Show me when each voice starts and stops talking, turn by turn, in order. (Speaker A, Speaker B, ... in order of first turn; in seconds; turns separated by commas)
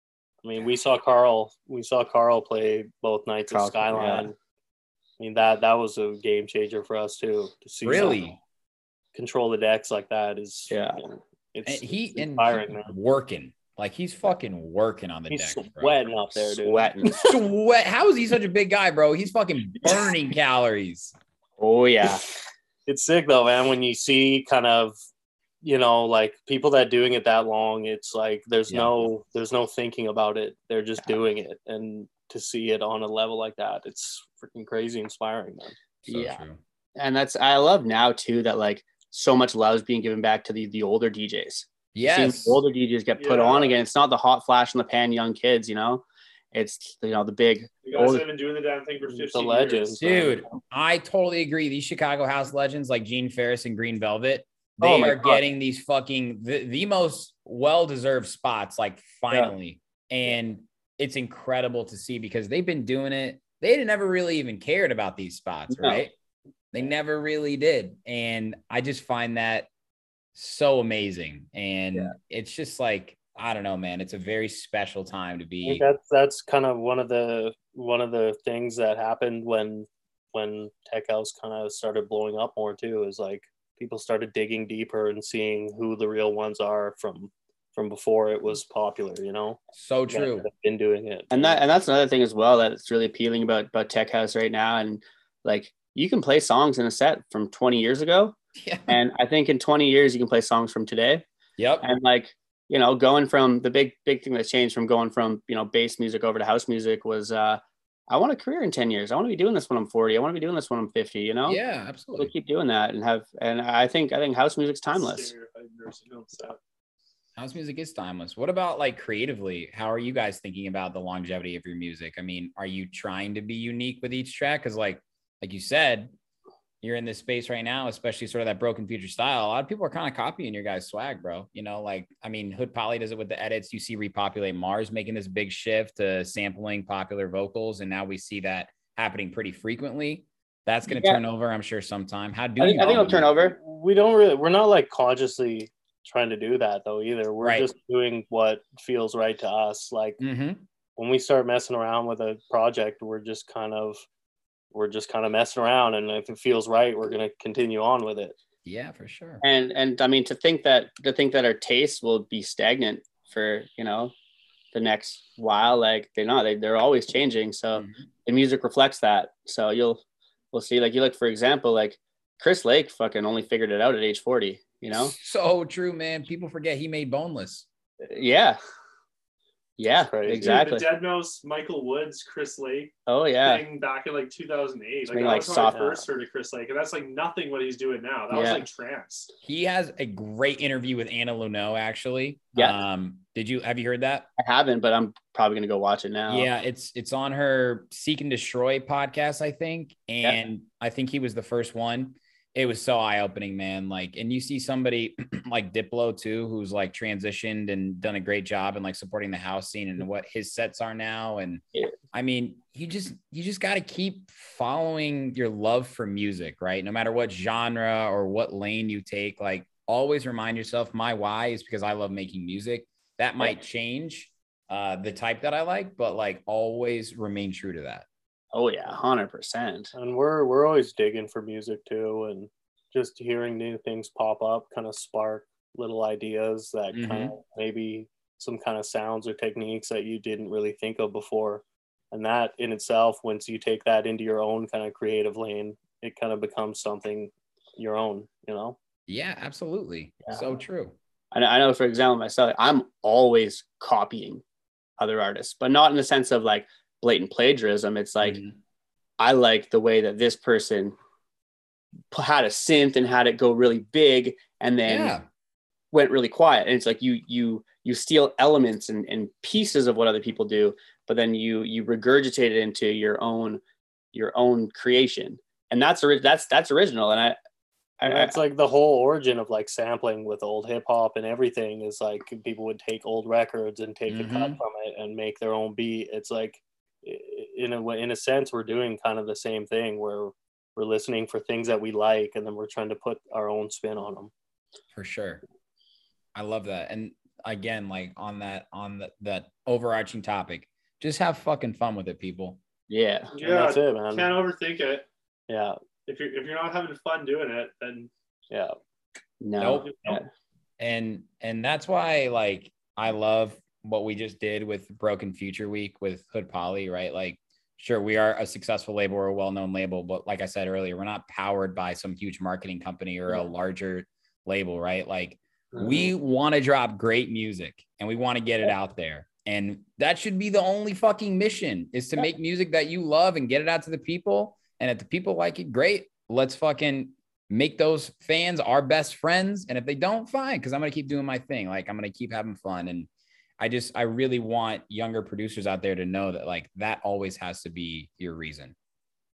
Speaker A: 0.4-4.3, Speaker B: 3.5-4.3, Speaker A: 5.2-8.2, Speaker C: 7.8-8.4, Speaker A: 9.1-12.9, Speaker B: 10.7-11.0, Speaker C: 11.6-16.1, Speaker A: 15.3-16.9, Speaker B: 16.6-17.4, Speaker C: 17.1-21.1, Speaker B: 21.6-22.2, Speaker A: 22.9-24.9, Speaker A: 25.6-35.7, Speaker C: 36.0-36.6, Speaker B: 36.1-36.4, Speaker B: 37.0-48.2, Speaker C: 41.9-42.6, Speaker D: 43.1-43.8, Speaker D: 47.8-50.1, Speaker A: 49.2-50.3, Speaker C: 50.0-66.1, Speaker B: 54.8-55.4, Speaker B: 65.7-66.0, Speaker C: 66.7-69.7, Speaker C: 70.3-75.8, Speaker A: 75.6-91.6, Speaker C: 89.8-90.5, Speaker B: 91.3-98.3, Speaker C: 98.6-99.0, Speaker B: 98.9-101.2, Speaker C: 101.6-101.9, Speaker B: 101.8-111.6, Speaker C: 111.5-112.3, Speaker B: 112.2-115.3, Speaker D: 114.9-116.6, Speaker C: 117.3-126.1, Speaker C: 126.8-143.3, Speaker B: 140.9-141.2, Speaker B: 142.6-143.6, Speaker A: 143.3-150.2, Speaker C: 147.4-147.7, Speaker C: 150.2-150.6, Speaker A: 151.0-154.0, Speaker A: 154.7-158.3, Speaker C: 158.6-159.4, Speaker B: 159.4-164.1, Speaker B: 164.7-175.1, Speaker C: 167.7-168.1, Speaker C: 174.9-177.7, Speaker B: 178.0-178.6, Speaker B: 179.8-180.9, Speaker A: 180.1-180.6, Speaker D: 180.4-189.3, Speaker B: 183.1-183.6, Speaker B: 185.1-186.0, Speaker A: 185.4-186.0, Speaker B: 188.3-188.7, Speaker C: 189.4-194.3, Speaker B: 194.4-196.5, Speaker C: 196.3-228.1, Speaker B: 228.5-229.9, Speaker A: 229.9-248.8, Speaker C: 236.9-237.3, Speaker C: 249.1-250.9, Speaker B: 251.3-254.4, Speaker B: 255.0-258.4, Speaker C: 258.2-258.6, Speaker B: 259.2-260.9, Speaker B: 262.1-265.1, Speaker C: 264.9-265.2, Speaker B: 265.9-273.6, Speaker B: 274.1-277.4, Speaker B: 278.0-278.4, Speaker A: 278.0-294.3, Speaker C: 284.1-284.6, Speaker C: 294.9-295.4, Speaker C: 296.3-302.6, Speaker B: 302.9-303.3, Speaker D: 303.3-305.1, Speaker A: 303.4-304.4, Speaker A: 305.5-305.8, Speaker D: 306.0-308.1, Speaker A: 308.5-308.7, Speaker B: 309.4-310.3, Speaker C: 309.6-309.9, Speaker C: 310.8-343.1, Speaker B: 325.8-326.1, Speaker C: 343.6-348.7